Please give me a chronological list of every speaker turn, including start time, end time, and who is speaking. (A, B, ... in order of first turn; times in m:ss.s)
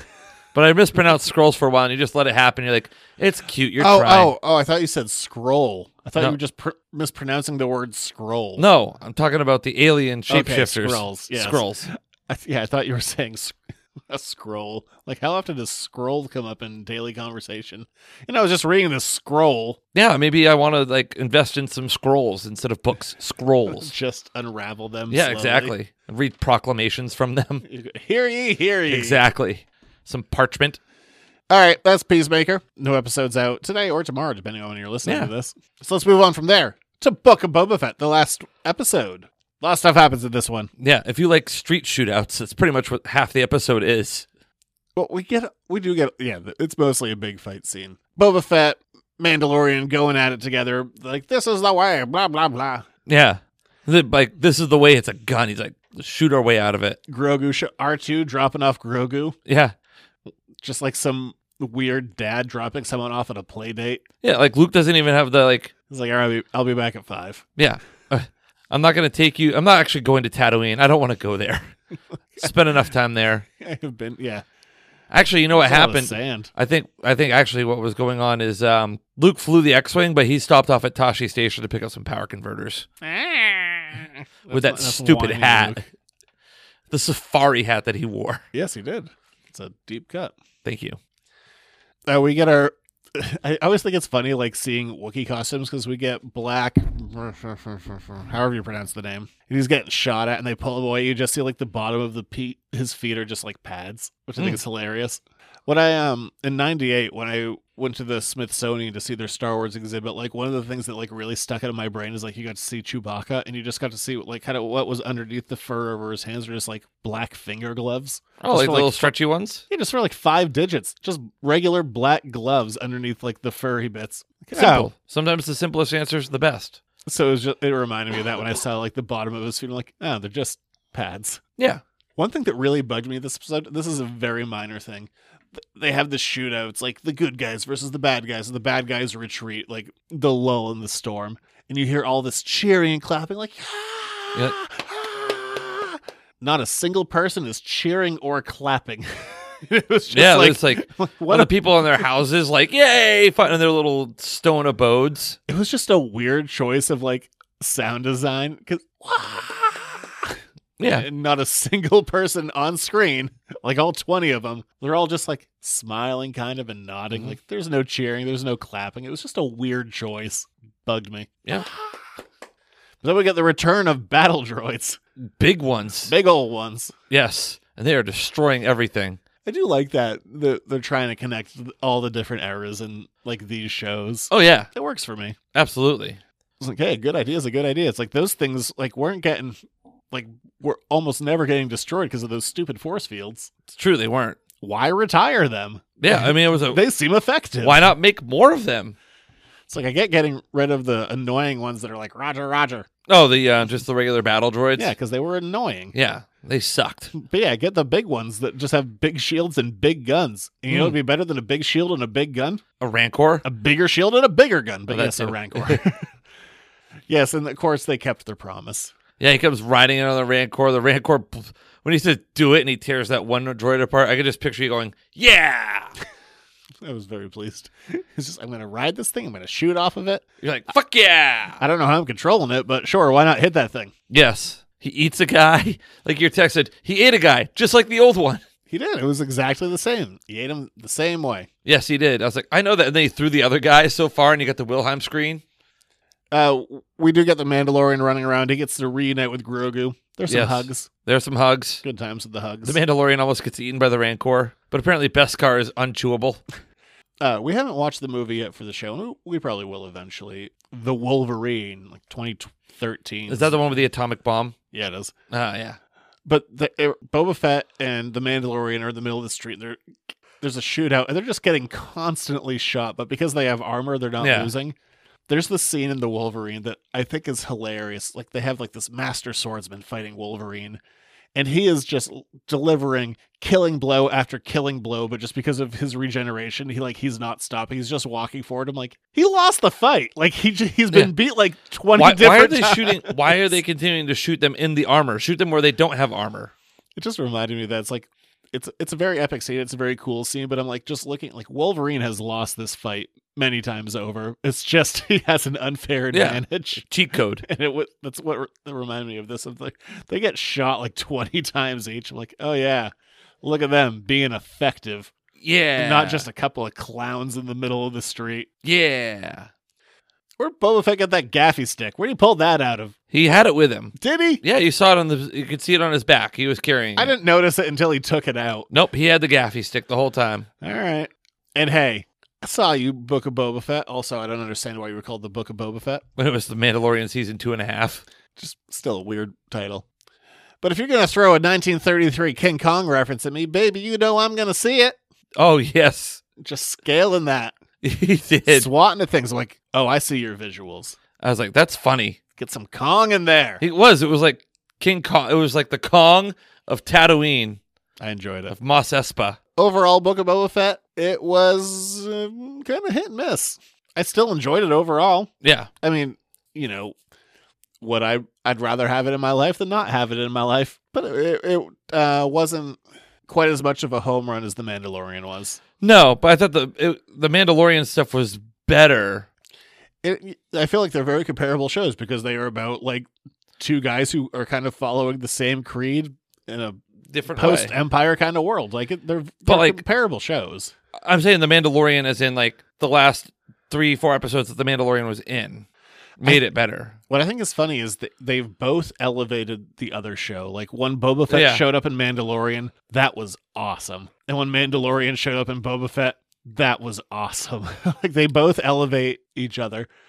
0:00.5-0:04.3 A
0:03.8-0:08.6 B
0:08.6-0:11.9 A
0:10.3-0:13.6 B
0:14.1-0:19.8 B
0:19.9-0:23.9 A
0:23.7-0:25.7 B
0:25.1-0:27.6 A
0:27.6-0:29.2 B
0:28.9-0:30.8 A
0:31.5-0:40.7 B
0:35.0-0:35.3 A
0:40.8-0:44.3 A
0:45.0-0:52.8 B
0:53.0-0:57.0 A
0:57.1-0:59.4 B
0:59.4-0:59.7 A
1:00.6-1:04.0 B
1:04.2-1:05.7 A
1:05.9-1:07.4 B
1:07.6-1:11.7 A
1:12.4-1:13.4 A
1:13.6-1:14.4 B
1:15.1-1:22.8 A
1:15.5-1:16.5 B
1:23.0-1:25.8 B
1:24.5-1:25.8 A
1:26.9-1:28.4 A
1:28.5-1:30.3 B
1:30.6-1:31.0 A
1:32.1-1:59.1 B
1:58.4-1:59.6 A
1:59.7-2:04.9 B
2:04.5-2:06.8 A
2:07.0-2:11.4 B
2:12.2-2:29.1 B
2:29.6-2:31.7 B
2:30.1-2:35.4 A
2:35.5-2:40.4 B
2:40.8-2:41.1 A
2:40.9-2:51.9 B
2:53.0-2:55.0 B
2:55.2-2:56.1 A
2:56.0-2:56.9 B
2:57.1-2:59.2 A
2:59.4-3:05.4 B
3:04.3-3:04.7 A
3:05.5-3:06.2 A
3:06.6-3:09.6 B
3:10.1-3:13.5 B
3:13.7-3:14.4 A
3:14.6-3:17.9 B
3:16.0-3:16.8 A
3:17.6-3:19.0 A
3:19.7-3:22.9 B
3:23.1-3:24.9 A
3:24.8-3:25.9 B
3:25.9-3:27.1 A
3:27.1-3:32.6 B
3:30.7-3:31.0 A
3:32.8-3:33.4 A
3:33.4-3:36.1 B
3:34.9-3:35.8 A
3:37.1-3:38.9 B
3:39.2-3:45.9 A
3:46.8-3:50.2 B
3:50.4-3:51.6 A
3:51.6-3:53.9 B
3:54.1-3:58.4 A
3:58.7-4:01.5 B
4:01.6-4:05.4 A
4:06.3-4:10.9 B
4:10.3-4:11.8 A
4:11.8-4:12.8 B
4:12.6-4:16.4 A
4:17.2-4:23.7 B
4:23.3-4:24.6 A
4:24.7-4:25.1 B
4:25.3-4:25.8 A
4:26.2-4:29.8 B
4:30.4-4:34.7 B
4:34.2-4:34.5 A
4:35.3-4:40.8 B
4:41.3-4:53.6 B
4:51.9-4:56.5 A
4:57.0-5:06.8 B
5:06.1-5:07.4 A
5:07.4-5:15.1 B
5:15.4-5:16.3 A
5:15.8-5:18.5 B
5:18.6-5:19.5 A
5:20.4-5:22.9 B
5:23.1-5:27.1 A
5:24.0-5:24.4 B
5:27.0-5:28.7 B
5:28.7-5:30.5 A
5:30.6-5:36.0 B
5:36.2-5:38.0 A
5:38.4-5:39.8 B
5:40.6-5:45.0 B
5:45.4-5:46.2 A
5:46.4-5:47.6 B
5:47.8-5:48.7 A
5:48.4-5:51.0 B
5:51.2-5:52.2 A
5:52.4-5:53.6 B
5:53.6-5:57.6 A
5:58.0-5:58.5 B
5:58.5-5:59.4 A
5:59.6-6:05.3 B
6:05.4-6:05.7 A
6:05.8-6:06.9 B
6:07.8-6:15.6 B
6:15.8-6:19.3 A
6:20.0-6:23.1 B
6:23.6-6:26.8 B
6:27.1-6:27.7 A
6:27.3-6:30.7 B
6:29.4-6:29.8 A
6:31.0-6:35.7 A
6:36.2-6:37.0 A
6:37.1-6:49.9 B
6:41.3-6:41.6 A